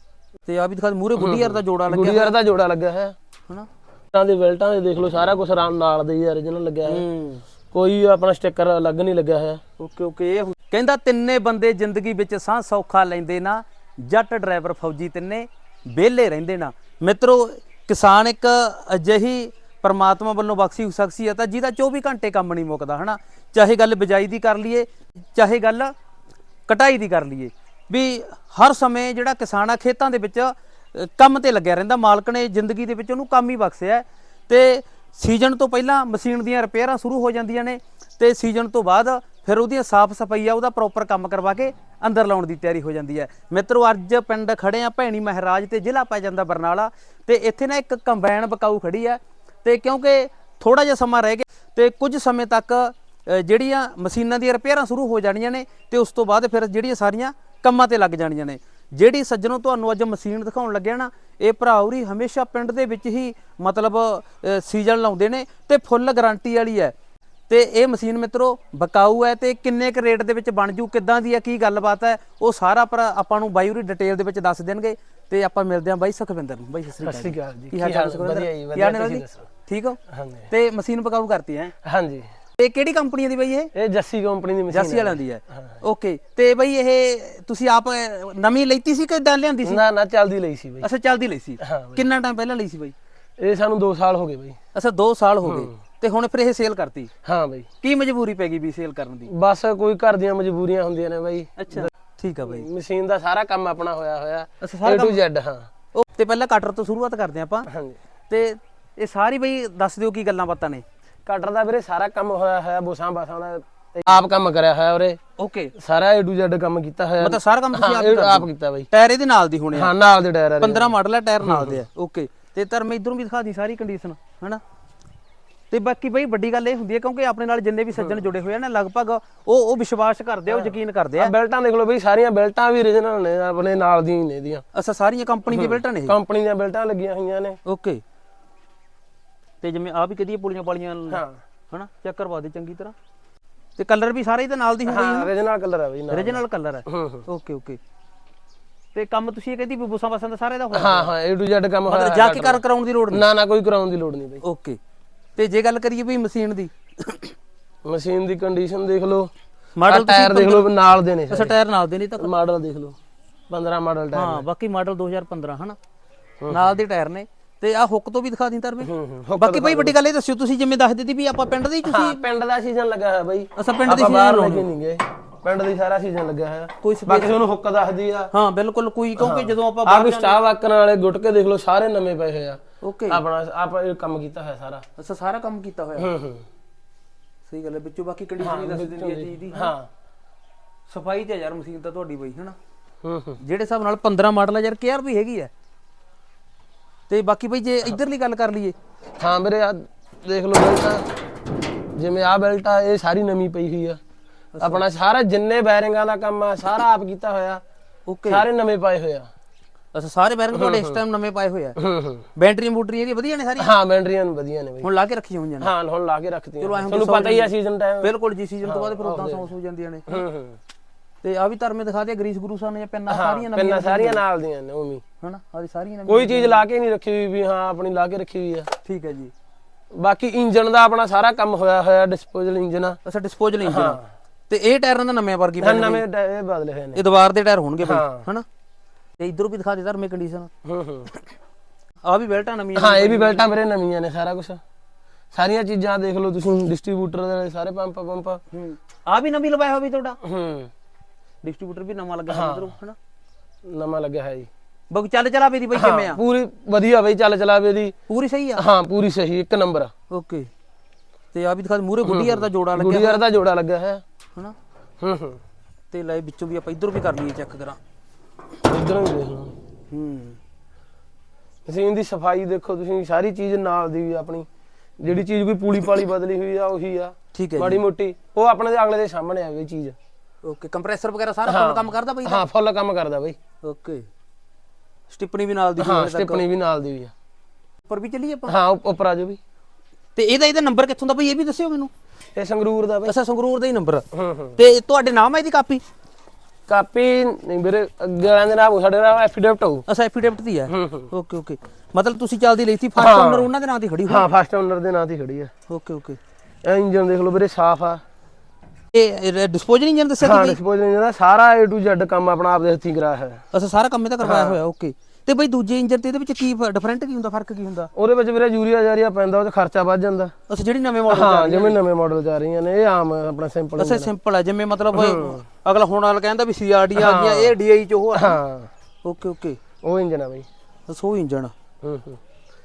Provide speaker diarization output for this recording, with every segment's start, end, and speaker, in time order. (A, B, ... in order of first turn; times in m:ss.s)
0:00.4-0:02.3 A
0:01.2-0:03.1 B
0:04.1-0:07.0 B
0:06.8-0:07.4 A
0:07.7-0:09.6 B
0:09.8-0:25.9 A
0:26.7-1:06.9 A
1:07.5-1:20.0 A
1:17.0-1:19.4 B
1:20.1-1:20.5 B
1:20.5-1:21.7 A
1:21.8-1:22.3 B
1:22.6-1:23.7 A
1:23.7-1:25.8 B
1:24.7-1:29.8 A
1:29.6-1:30.9 B
1:30.8-1:32.9 A
1:31.6-1:32.0 B
1:33.4-1:34.6 B
1:34.7-1:37.1 A
1:35.4-1:35.7 B
1:37.2-1:37.7 B
1:37.8-1:39.3 A
1:39.3-1:41.9 B
1:41.6-1:42.7 A
1:42.4-1:45.7 B
1:44.6-1:45.2 A
1:45.9-1:47.7 A
1:47.7-1:48.0 B
1:48.3-1:50.8 A
1:51.2-1:55.2 B
1:55.4-1:55.7 A
1:55.8-1:58.9 B
1:57.2-1:59.9 A
1:59.7-2:00.9 B
2:00.6-2:04.6 A
2:01.4-2:01.8 B
2:05.7-2:11.3 A
2:10.5-2:14.6 B
2:14.7-2:16.2 A
2:15.5-2:17.6 B
2:17.6-2:18.0 A
2:19.6-2:22.9 A
2:21.1-2:21.4 B
2:23.8-2:25.3 A
2:24.8-2:27.2 B
2:26.1-2:27.8 A
2:28.9-2:31.1 A
2:30.7-2:34.4 B
2:31.9-2:33.2 A
2:34.4-2:34.8 A
2:35.4-2:37.3 A
2:37.8-2:39.3 B
2:39.8-2:40.7 A
2:39.9-2:41.5 B
2:41.3-2:42.3 A
2:42.2-2:43.0 B
2:43.5-2:44.4 B
2:44.1-2:45.8 A
2:46.4-2:46.7 B
2:46.5-2:52.2 A
2:48.8-2:49.9 B
2:51.8-2:58.3 B
2:53.6-2:54.7 A
2:56.8-2:57.4 A
2:58.3-3:00.4 A
2:59.2-3:04.8 B
3:02.8-3:03.2 A
3:05.0-3:06.1 A
3:06.0-3:06.4 B
3:07.5-3:09.7 A
3:08.4-3:09.9 B
3:10.9-3:12.6 A
3:13.0-3:13.4 B
3:13.4-3:15.5 A
3:17.1-3:18.8 A
3:19.2-3:21.0 B
3:21.9-3:24.0 B
3:24.6-3:24.8 A
3:24.6-3:27.6 B
3:28.1-3:28.4 A
3:28.3-3:29.3 B
3:29.9-3:31.8 A
3:30.5-3:31.0 B
3:31.8-3:32.2 B
3:32.4-3:33.7 A
3:33.6-3:34.9 B
3:34.8-3:35.7 A
3:35.6-3:38.1 B
3:36.6-3:40.2 A
3:38.6-3:39.5 B
3:40.1-3:40.6 B
3:41.2-3:44.2 A
3:43.1-3:45.0 B
3:45.2-3:46.6 A
3:46.1-3:48.7 B
3:48.8-3:49.3 A
3:49.9-3:53.0 B
3:53.0-3:56.0 A
3:53.6-3:54.1 B
3:55.6-3:57.0 B
3:56.9-3:58.4 A
3:57.8-3:58.2 B
3:59.2-4:00.5 A
4:00.6-4:01.1 B
4:02.0-4:03.5 A
4:02.8-4:04.6 B
4:05.3-4:08.4 B
4:08.5-4:10.2 A
4:10.2-4:10.7 B
4:11.4-4:13.0 A
4:12.3-4:12.7 B
4:13.6-4:14.5 B
4:14.9-4:16.2 A
4:15.7-4:18.0 B
4:18.1-4:18.6 A
4:18.6-4:19.9 B
4:20.1-4:20.5 A
4:21.3-4:23.2 A
4:22.0-4:24.0 B
4:25.0-4:25.4 B
4:25.9-4:27.8 A
4:28.6-4:29.5 B
4:29.9-4:30.4 A
4:31.6-4:34.5 B
4:35.0-4:40.0 B
4:37.3-4:37.8 A
4:40.4-4:42.4 A
4:41.4-4:43.4 B
4:43.6-4:44.1 A
4:45.1-4:46.4 A
4:45.8-4:47.1 B
4:47.9-4:48.5 A
4:48.5-4:49.4 B
4:50.2-4:51.9 A
4:52.3-4:53.1 B
4:53.0-4:54.0 A
4:54.1-4:54.6 B
4:54.6-4:55.8 A
4:56.7-4:59.8 B
4:59.9-5:04.2 A
5:00.7-5:01.1 B
5:03.0-5:03.5 B
5:04.0-5:05.5 B
5:05.7-5:06.2 A
5:06.6-5:08.0 B
5:08.9-5:10.6 A
5:10.2-5:13.4 B
5:13.5-5:17.9 A
5:14.2-5:14.6 B
5:17.9-5:20.3 B
5:20.5-5:21.8 A
5:21.1-5:24.1 B
5:23.8-5:28.4 A
5:24.9-5:25.4 B
5:27.0-5:27.5 B
5:28.1-5:28.7 B
5:29.0-5:29.6 A
5:29.8-5:30.5 B
5:30.9-5:31.5 A
5:31.8-5:32.2 B